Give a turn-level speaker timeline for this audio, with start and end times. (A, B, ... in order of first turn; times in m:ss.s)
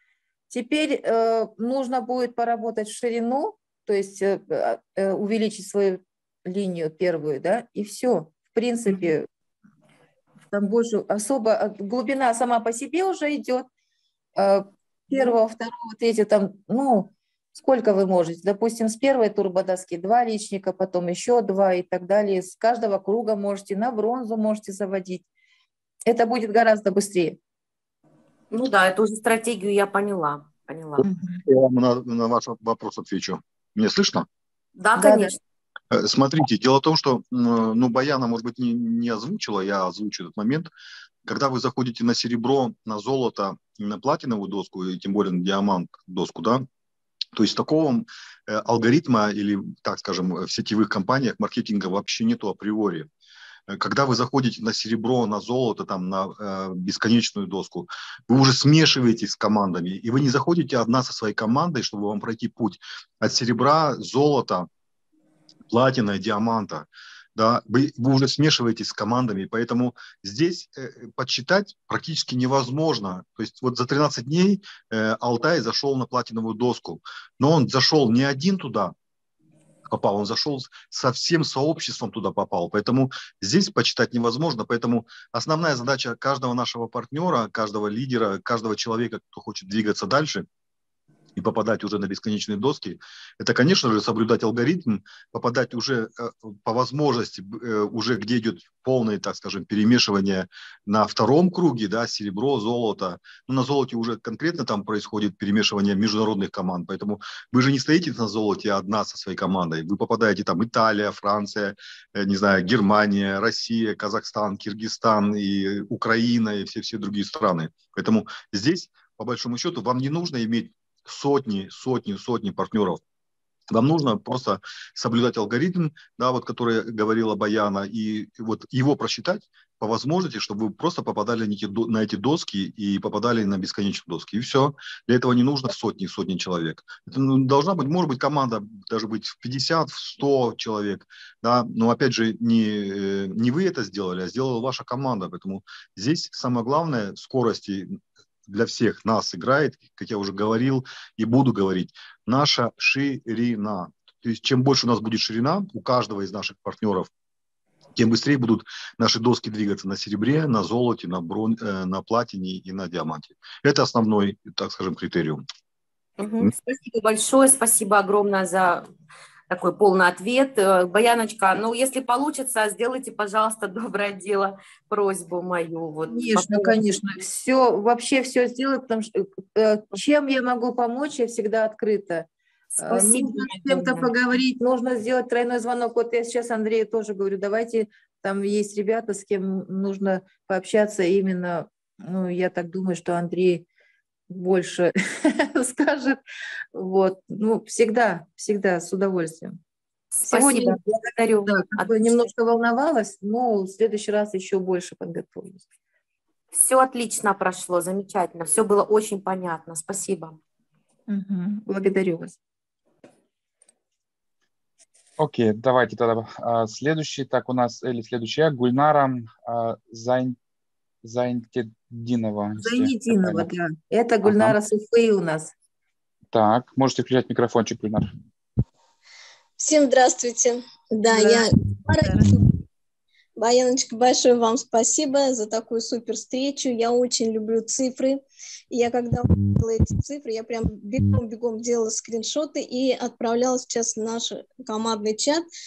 0:00.5-0:09.3 A
0:10.5-0:13.7 A
0:14.4-0:25.3 A
0:26.1-0:27.4 A
0:28.5-0:31.0 B
0:31.0-0:34.3 C
0:31.0-0:31.4 A
0:34.8-0:35.4 B
0:35.0-0:35.4 A
0:35.9-0:40.7 C
0:41.2-0:46.7 C
0:47.4-0:53.1 C
0:53.7-1:04.7 C
1:05.7-1:19.0 C
1:19.9-1:30.5 C
1:31.4-2:03.0 C
2:03.7-2:37.1 C
2:38.0-2:45.4 C
2:46.2-2:48.9 B
2:49.5-2:56.8 B
2:56.1-3:02.3 A
3:02.7-3:04.1 B
3:02.8-3:13.6 A
3:14.3-3:16.2 A
3:16.8-3:19.6 A
3:20.1-3:22.3 B
3:20.3-3:20.8 A
3:21.4-3:25.6 A
3:26.5-3:30.4 B
3:31.1-3:32.4 A
3:35.2-3:40.4 D
3:41.0-3:43.5 D
3:42.6-3:45.5 A
3:44.2-3:44.6 D
3:46.3-3:48.1 D
3:49.6-3:52.5 E
3:51.1-3:52.3 A
3:53.4-3:58.2 E
3:58.7-4:05.4 E